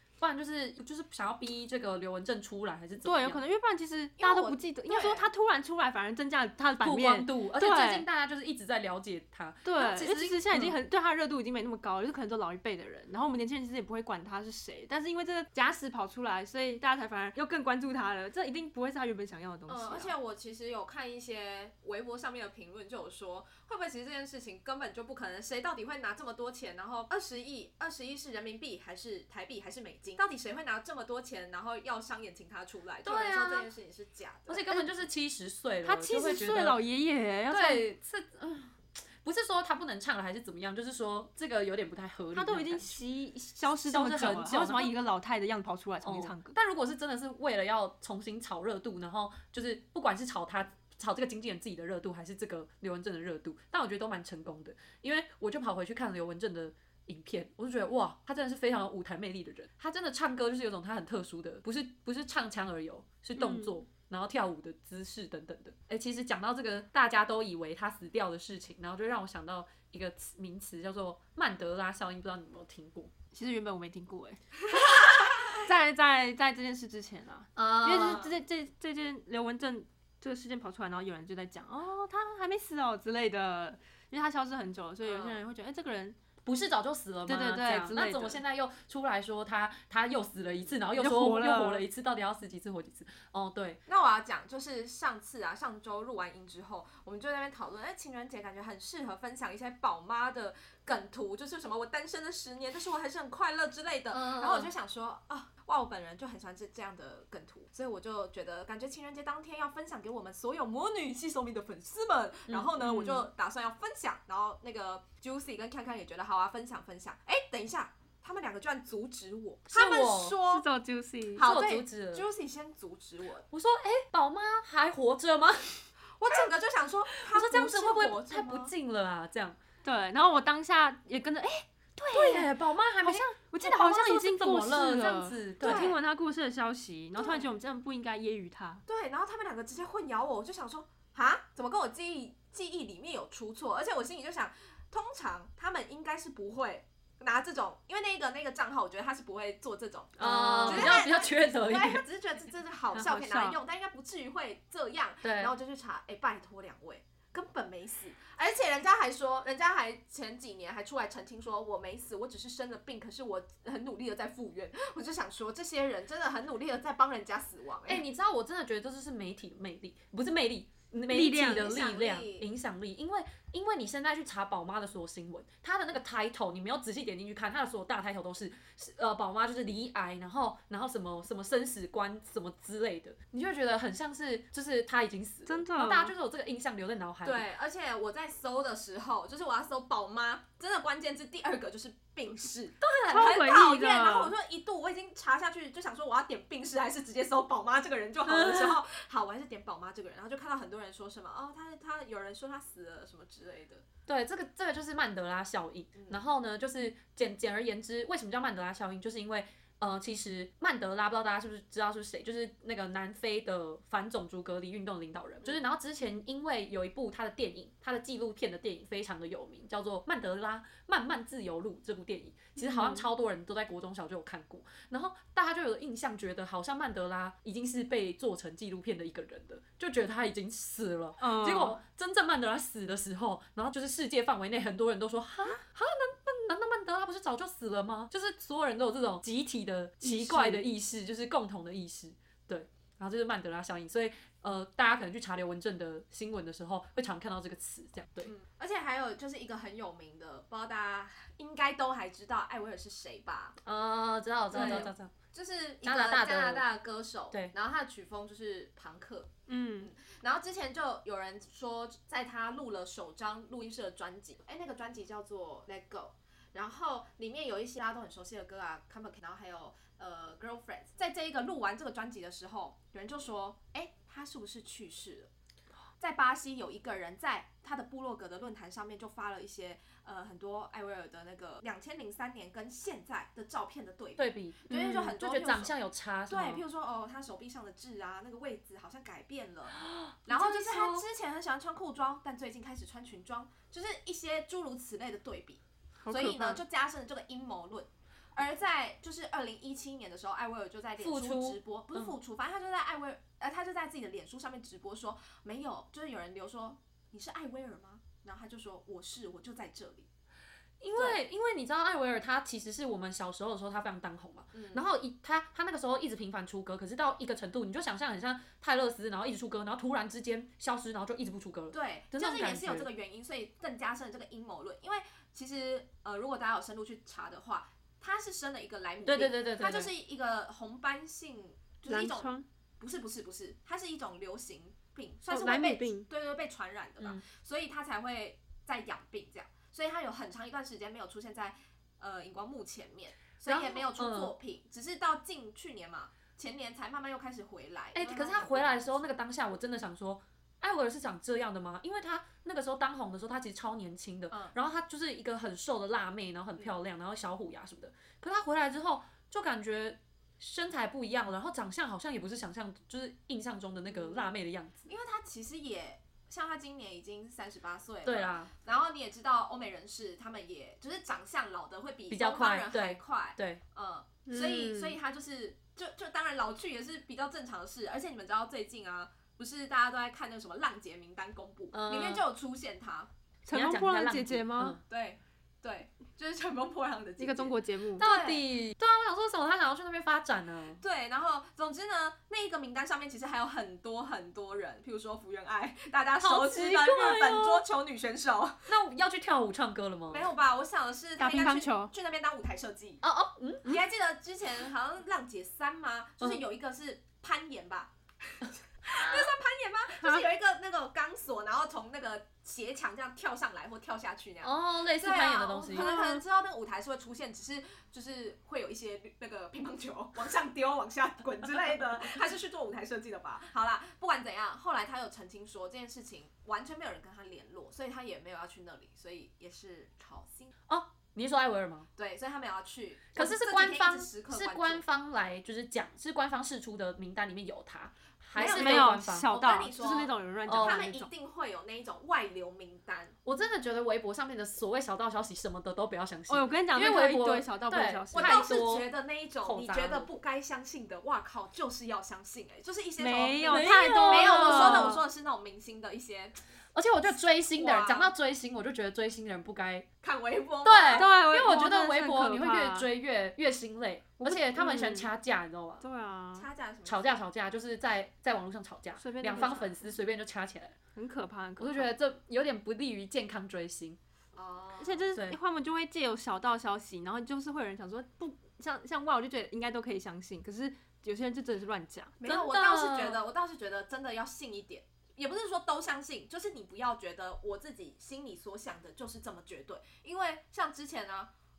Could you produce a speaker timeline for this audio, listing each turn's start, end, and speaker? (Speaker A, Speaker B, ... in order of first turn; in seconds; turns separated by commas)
Speaker A: 0.2-3.4, Speaker B: 3.0-8.1, Speaker C: 4.2-5.3, Speaker A: 6.8-10.8, Speaker B: 9.7-20.2, Speaker C: 19.7-34.8, Speaker A: 33.0-33.7, Speaker A: 34.5-36.8, Speaker B: 35.8-37.8, Speaker A: 37.5-43.0, Speaker B: 42.3-46.6, Speaker A: 43.9-44.9, Speaker A: 46.0-73.1, Speaker B: 63.4-63.8, Speaker B: 73.3-86.2, Speaker A: 77.6-78.4, Speaker C: 85.0-85.4, Speaker A: 86.4-93.8, Speaker B: 87.3-88.4, Speaker B: 90.9-91.8, Speaker C: 93.9-120.7, Speaker A: 104.1-104.7, Speaker A: 112.5-113.2, Speaker B: 112.8-113.2, Speaker A: 119.7-120.4, Speaker B: 120.4-121.5, Speaker C: 121.3-123.5, Speaker A: 121.4-122.3, Speaker A: 123.5-125.9, Speaker C: 126.2-128.7, Speaker A: 127.1-129.6, Speaker B: 129.8-138.8, Speaker A: 132.1-135.9, Speaker C: 135.6-136.0, Speaker C: 137.2-137.5, Speaker C: 138.9-168.1, Speaker A: 150.2-152.0, Speaker B: 150.2-151.0, Speaker B: 152.9-153.6, Speaker A: 155.2-155.5, Speaker A: 167.8-187.4, Speaker B: 171.1-171.8, Speaker C: 171.3-172.5, Speaker B: 185.5-186.1, Speaker C: 187.2-203.8, Speaker A: 192.8-193.4, Speaker B: 193.1-194.3, Speaker A: 198.3-198.8, Speaker A: 204.1-248.3, Speaker B: 222.6-223.1, Speaker B: 231.2-231.8, Speaker B: 240.0-240.6, Speaker C: 248.2-253.6, Speaker A: 253.6-255.1, Speaker C: 254.5-275.3, Speaker B: 254.5-254.9, Speaker A: 255.8-256.6, Speaker B: 259.5-259.9, Speaker C: 276.0-285.8, Speaker A: 284.2-286.6, Speaker B: 284.7-285.1, Speaker C: 286.3-310.1, Speaker A: 289.8-291.0, Speaker B: 296.0-296.6, Speaker A: 301.0-302.1, Speaker A: 310.8-322.9, Speaker C: 310.9-311.2, Speaker C: 314.5-314.8, Speaker C: 321.7-349.1, Speaker A: 329.1-329.9, Speaker B: 331.9-332.4, Speaker B: 335.3-336.1, Speaker A: 343.5-344.3, Speaker A: 347.9-364.9, Speaker C: 363.9-364.3, Speaker C: 364.9-383.1, Speaker A: 368.1-368.5, Speaker A: 372.1-373.6, Speaker B: 374.3-374.9, Speaker A: 381.7-382.3, Speaker B: 383.5-384.8, Speaker A: 383.5-384.8, Speaker C: 384.9-388.4, Speaker B: 387.2-388.1, Speaker A: 388.0-390.8, Speaker C: 390.8-398.7, Speaker A: 396.2-397.6, Speaker A: 398.7-400.3, Speaker C: 400.1-403.0, Speaker B: 401.2-401.9, Speaker A: 403.0-403.8, Speaker C: 403.6-430.5, Speaker A: 408.9-409.3, Speaker A: 414.4-416.0, Speaker B: 415.7-416.2, Speaker A: 430.7-431.9, Speaker C: 432.0-434.8, Speaker A: 433.1-439.3, Speaker C: 438.3-443.1, Speaker B: 438.4-441.1, Speaker A: 440.5-440.9, Speaker A: 443.2-448.9, Speaker B: 446.3-448.4, Speaker C: 448.1-456.4, Speaker A: 449.4-450.1, Speaker B: 453.0-455.0, Speaker A: 453.5-455.0, Speaker A: 456.8-459.9, Speaker C: 457.6-458.1, Speaker C: 460.0-461.1, Speaker A: 460.6-465.8, Speaker B: 460.9-462.9, Speaker B: 464.2-465.1, Speaker B: 465.8-466.5, Speaker C: 466.4-467.2, Speaker A: 466.9-470.8, Speaker B: 469.0-469.9, Speaker B: 470.9-471.9, Speaker A: 471.6-474.0, Speaker C: 474.4-475.1, Speaker B: 474.8-482.2, Speaker A: 475.1-475.4, Speaker C: 482.2-491.3, Speaker A: 482.2-483.2